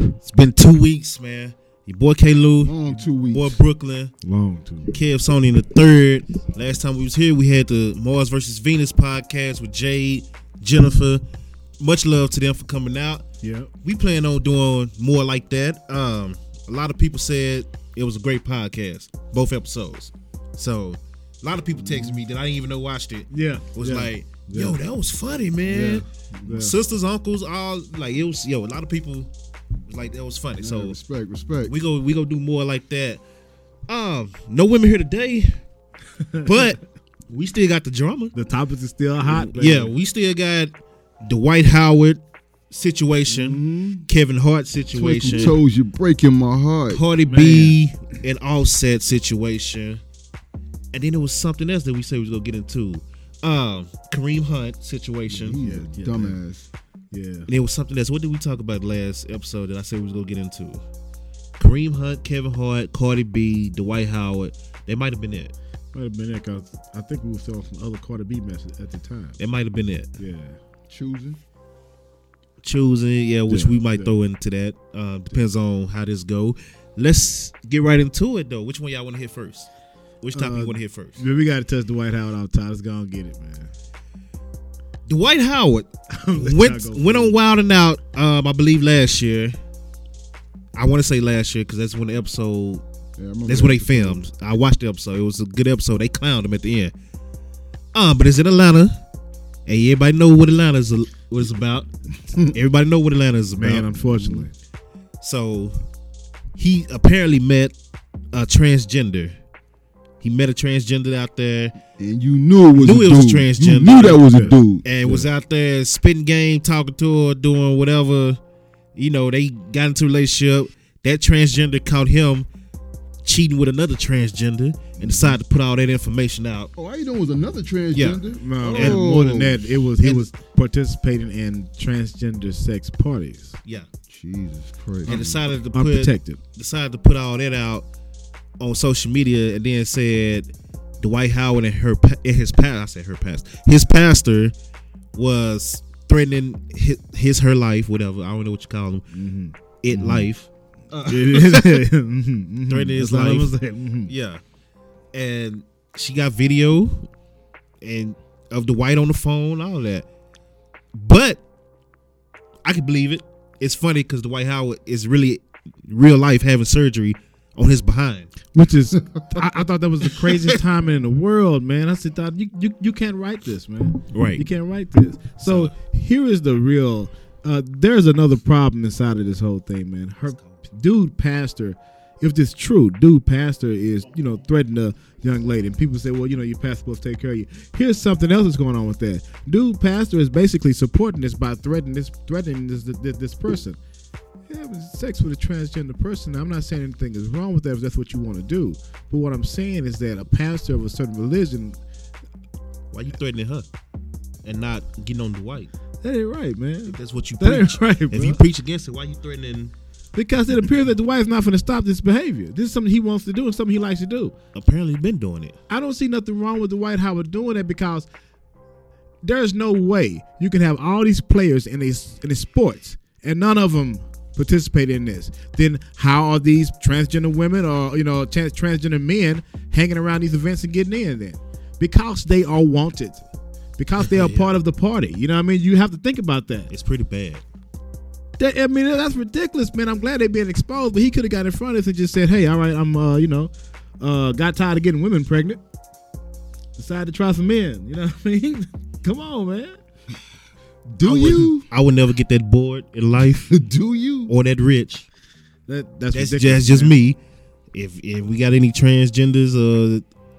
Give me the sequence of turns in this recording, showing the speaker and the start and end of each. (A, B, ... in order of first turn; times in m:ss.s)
0:00.2-0:02.7 A
0:02.6-0:03.6 B
0:03.3-0:04.1 A
0:04.2-0:04.9 C
0:04.9-0:11.2 A
0:11.8-0:13.2 A
0:13.4-0:13.7 C
0:13.8-0:29.3 A
0:21.7-0:22.2 B
0:23.3-0:24.8 C
0:25.7-0:26.6 B
0:26.4-0:26.7 C
0:29.9-0:31.0 A
0:30.6-0:31.7 B
0:31.6-0:33.2 A
0:33.9-0:35.6 A
0:36.2-0:36.7 C
0:36.4-0:38.3 A
0:38.3-0:39.9 C
0:39.2-0:45.6 A
0:43.2-0:44.1 B
0:44.9-0:47.0 B
0:46.9-0:50.0 A
0:47.3-0:47.8 C
0:50.9-0:55.6 A
0:55.3-0:56.7 B
0:55.4-0:56.4 C
0:57.1-0:57.5 C
0:57.5-1:00.8 A
1:01.6-1:05.5 A
1:05.9-1:09.4 C
1:09.4-1:10.1 A
1:10.2-1:10.6 C
1:10.9-1:11.4 B
1:12.6-1:19.7 A
1:13.5-1:14.1 C
1:20.2-1:21.2 A
1:20.3-1:23.7 C
1:25.0-1:29.6 A
1:26.1-1:27.4 C
1:30.7-1:32.8 A
1:33.2-1:34.2 B
1:33.4-1:36.9 A
1:37.9-1:38.9 A
1:39.6-1:41.9 A
1:42.5-1:43.9 A
1:43.6-1:44.5 C
1:44.0-1:44.5 B
1:45.2-1:45.7 A
1:46.6-1:47.7 A
1:48.3-1:49.4 A
1:50.2-1:51.7 A
1:52.0-1:54.9 B
1:52.8-1:58.4 A
1:54.3-1:55.2 C
1:58.9-2:02.5 A
2:03.2-2:06.7 A
2:05.0-2:05.4 B
2:06.8-2:09.7 B
2:07.9-2:09.0 A
2:08.4-2:13.5 C
2:10.0-2:10.3 A
2:14.1-2:15.2 B
2:15.0-2:16.4 C
2:15.0-2:17.9 A
2:18.6-2:24.5 A
2:25.1-2:29.0 A
2:29.1-2:30.2 C
2:29.8-2:31.9 A
2:31.0-2:34.1 C
2:32.7-2:33.5 A
2:34.0-2:34.4 A
2:35.1-2:37.1 A
2:37.8-2:40.0 A
2:40.9-2:41.4 A
2:42.6-2:48.3 A
2:48.5-3:13.8 C
2:50.0-2:50.6 A
2:54.1-2:54.4 A
2:55.4-2:55.7 A
3:00.3-3:00.6 A
3:14.5-3:21.8 C
3:22.9-3:23.6 A
3:24.4-3:25.7 A
3:26.0-3:28.4 C
3:26.9-3:29.7 A
3:30.1-3:34.3 C
3:34.5-3:35.6 A
3:35.7-3:38.1 C
3:39.2-3:56.7 C
3:54.0-3:54.6 A
3:56.7-3:57.4 A
3:58.4-4:05.6 C
4:06.8-4:09.8 C
4:10.9-4:11.7 B
4:11.0-4:13.5 A
4:11.1-4:11.4 C
4:13.5-4:14.3 B
4:14.3-4:15.0 A
4:15.7-4:16.9 C
4:16.1-4:17.2 A
4:17.7-4:20.0 A